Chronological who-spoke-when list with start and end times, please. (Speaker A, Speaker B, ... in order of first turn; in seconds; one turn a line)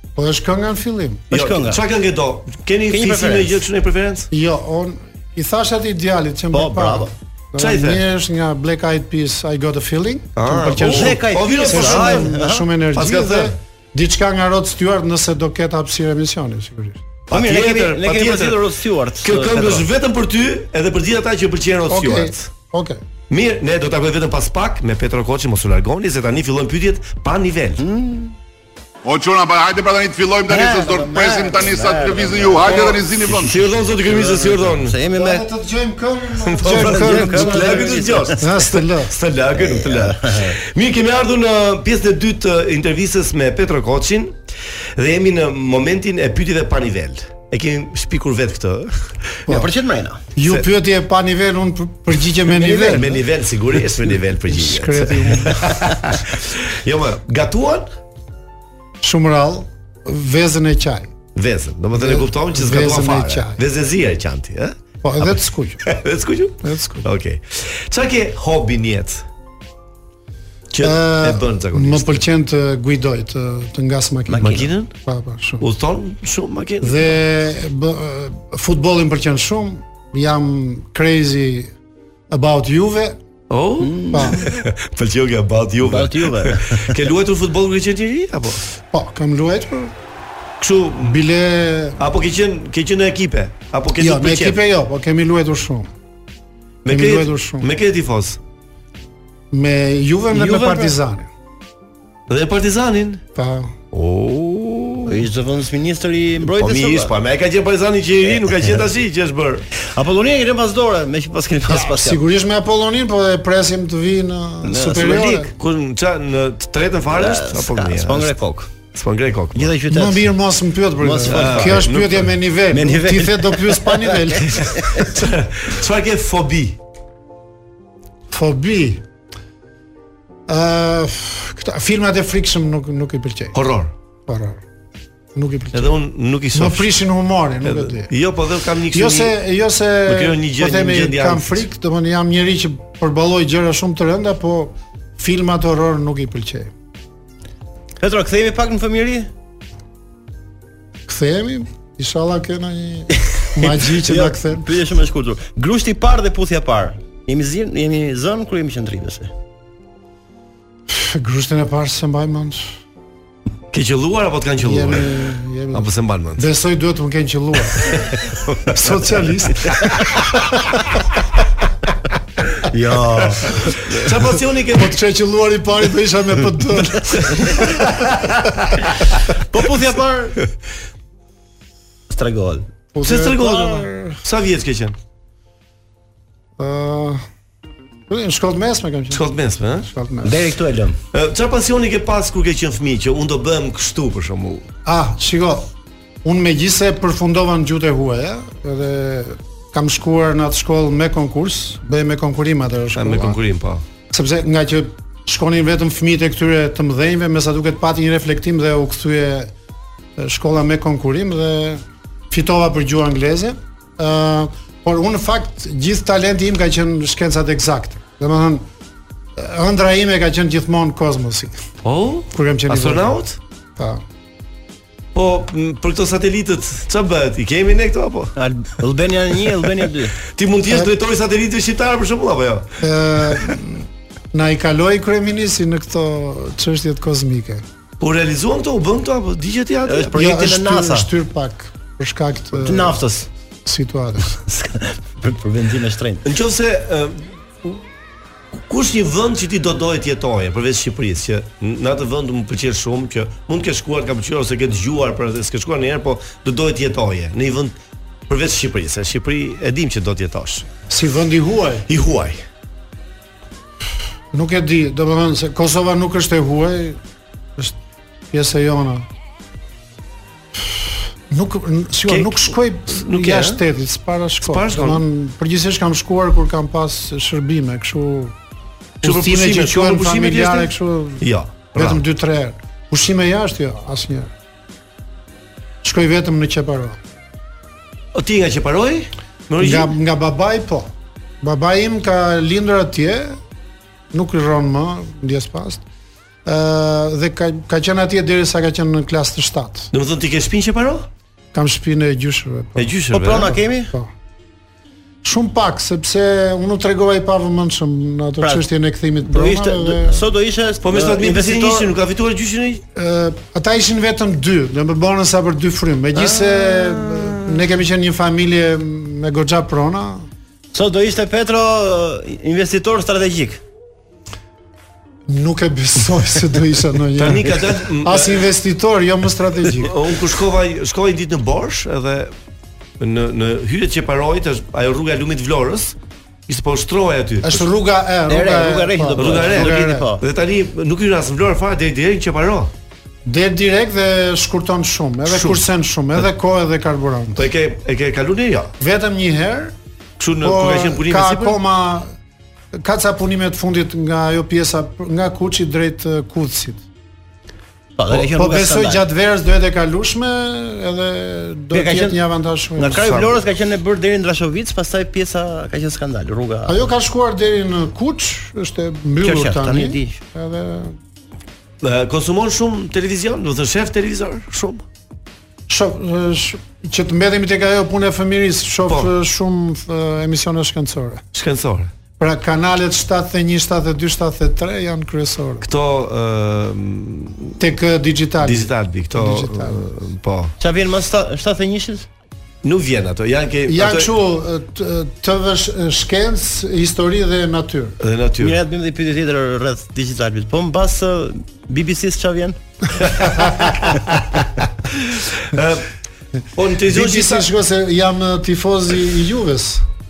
Speaker A: 0.2-1.3
Speaker B: 1.3-1.8
Speaker C: 1.3-4.3
Speaker B: 2.9-3.6
Speaker A: 4.3-17.0
Speaker B: 6.5-7.1
Speaker C: 7.6-8.0
Speaker C: 10.4-12.3
Speaker B: 10.8-12.7
Speaker C: 12.9-13.6
Speaker C: 17.3-18.6
Speaker B: 17.3-19.9
Speaker C: 19.2-22.5
Speaker A: 21.9-23.0
Speaker C: 23.3-27.8
Speaker B: 27.8-28.4
Speaker D: 29.1-33.7
Speaker B: 30.5-35.5
Speaker C: 33.3-35.0
Speaker A: 35.1-39.1
Speaker C: 36.5-44.4
Speaker B: 36.6-38.5
Speaker B: 39.6-40.6
Speaker C: 45.0-49.4
Speaker B: 49.5-50.2
Speaker A: 50.4-53.2
Speaker B: 52.6-53.0
Speaker C: 52.7-57.9
Speaker A: 54.5-55.9
Speaker A: 59.0-61.1
Speaker C: 61.4-69.2
Speaker A: 61.9-63.6
Speaker A: 65.0-66.0
Speaker A: 66.6-67.1
Speaker C: 70.7-72.3
Speaker A: 70.8-75.7
Speaker B: 74.3-74.7
Speaker C: 74.4-74.9
Speaker C: 75.6-77.1
Speaker A: 76.8-81.7
Speaker A: 82.3-83.2
Speaker C: 83.5-88.6
Speaker B: 83.8-84.4
Speaker A: 84.1-84.4
Speaker B: 85.8-87.0
Speaker A: 88.9-89.9
Speaker C: 90.6-91.2
Speaker A: 91.0-92.0
Speaker C: 92.0-94.6
Speaker A: 94.0-95.9
Speaker C: 96.8-98.4
Speaker A: 96.9-97.7
Speaker A: 99.5-101.3
Speaker B: 100.3-101.0
Speaker C: 102.3-103.2
Speaker A: 103.3-103.7
Speaker C: 103.9-105.2
Speaker B: 105.1-107.1
Speaker C: 106.4-109.7
Speaker B: 109.8-112.2
Speaker A: 111.7-115.5
Speaker B: 114.6-115.5
Speaker C: 115.6-118.3
Speaker B: 117.1-118.7
Speaker C: 118.9-119.7
Speaker B: 119.5-120.3
Speaker A: 119.9-124.8
Speaker B: 121.0-121.9
Speaker C: 121.3-122.3
Speaker B: 122.7-125.1
Speaker C: 124.6-126.8
Speaker A: 128.3-129.0
Speaker A: 130.5-133.6
Speaker C: 133.5-133.9
Speaker A: 134.3-134.6
Speaker A: 135.3-135.9
Speaker C: 135.7-136.9
Speaker A: 136.5-138.1
Speaker C: 137.6-139.4
Speaker A: 138.9-146.7
Speaker C: 140.1-141.7
Speaker B: 148.0-149.3
Speaker A: 151.1-154.7
Speaker B: 153.3-159.3
Speaker A: 160.9-162.7
Speaker C: 163.7-165.1
Speaker A: 164.6-168.0
Speaker C: 165.7-166.5
Speaker C: 167.8-168.9
Speaker A: 168.7-170.6
Speaker B: 172.7-174.1
Speaker C: 173.7-175.0
Speaker A: 174.7-178.1
Speaker B: 177.3-177.6
Speaker C: 177.3-177.9
Speaker B: 179.4-180.4
Speaker B: 182.1-182.7
Speaker A: 182.9-184.2
Speaker C: 183.0-185.0
Speaker A: 186.6-187.2
Speaker A: 188.1-189.3
Speaker C: 189.1-189.9
Speaker A: 189.8-190.4
Speaker B: 190.2-191.0
Speaker C: 191.1-194.7
Speaker A: 194.9-195.7
Speaker A: 196.2-203.4
Speaker C: 202.9-203.8
Speaker A: 204.1-209.5
Speaker A: 210.2-218.6
Speaker A: 219.4-221.6
Speaker C: 221.8-223.4
Speaker A: 222.3-223.2
Speaker A: 223.8-224.0
Speaker C: 225.2-228.3
Speaker B: 228.4-230.2
Speaker C: 230.3-232.8
Speaker A: 232.8-237.6
Speaker C: 238.0-240.2
Speaker B: 239.9-241.1
Speaker A: 240.1-243.0
Speaker B: 242.6-243.3
Speaker A: 243.7-244.4
Speaker B: 244.4-246.3
Speaker C: 246.2-247.8
Speaker C: 248.5-257.8
Speaker C: 258.3-260.7
Speaker A: 260.9-261.9
Speaker C: 261.9-262.4
Speaker A: 264.3-267.0
Speaker A: 268.3-269.1
Speaker A: 271.3-278.4
Speaker C: 272.1-273.6
Speaker C: 274.4-275.0
Speaker A: 279.0-284.3
Speaker C: 279.0-282.0
Speaker A: 285.8-287.0
Speaker C: 288.1-290.0
Speaker A: 289.6-290.9
Speaker A: 291.4-293.4
Speaker A: 294.1-295.8
Speaker A: 296.5-299.9
Speaker C: 299.9-301.1
Speaker A: 301.5-302.9
Speaker C: 302.8-303.6
Speaker B: 303.1-303.9
Speaker A: 305.2-310.3
Speaker B: 308.4-308.7
Speaker B: 309.2-311.9
Speaker C: 310.8-312.8
Speaker A: 312.9-320.3
Speaker B: 316.2-316.8
Speaker B: 320.7-323.6
Speaker A: 325.3-329.9
Speaker C: 327.2-328.5
Speaker C: 329.8-332.4
Speaker C: 333.0-336.0
Speaker C: 336.5-337.7
Speaker A: 337.4-340.1
Speaker B: 338.3-340.2
Speaker C: 339.2-342.7
Speaker A: 343.3-347.4
Speaker C: 345.3-345.6
Speaker C: 347.4-348.7
Speaker A: 348.8-349.7
Speaker C: 350.2-351.6
Speaker A: 350.4-352.1
Speaker A: 352.8-356.8
Speaker B: 358.0-359.0
Speaker A: 358.3-363.2
Speaker B: 361.7-362.2
Speaker B: 362.8-366.8
Speaker C: 363.0-363.4
Speaker A: 366.7-371.0
Speaker B: 369.2-370.2
Speaker C: 371.8-374.9
Speaker A: 375.7-381.2
Speaker C: 381.3-381.9
Speaker A: 382.2-385.6
Speaker C: 385.6-387.6
Speaker A: 387.6-389.9
Speaker C: 388.4-390.5
Speaker B: 390.6-392.1
Speaker C: 392.6-394.1
Speaker A: 393.7-398.0
Speaker C: 398.0-398.6
Speaker B: 398.4-402.6
Speaker C: 403.4-404.0
Speaker C: 405.1-405.9
Speaker C: 406.6-407.5
Speaker A: 406.9-409.8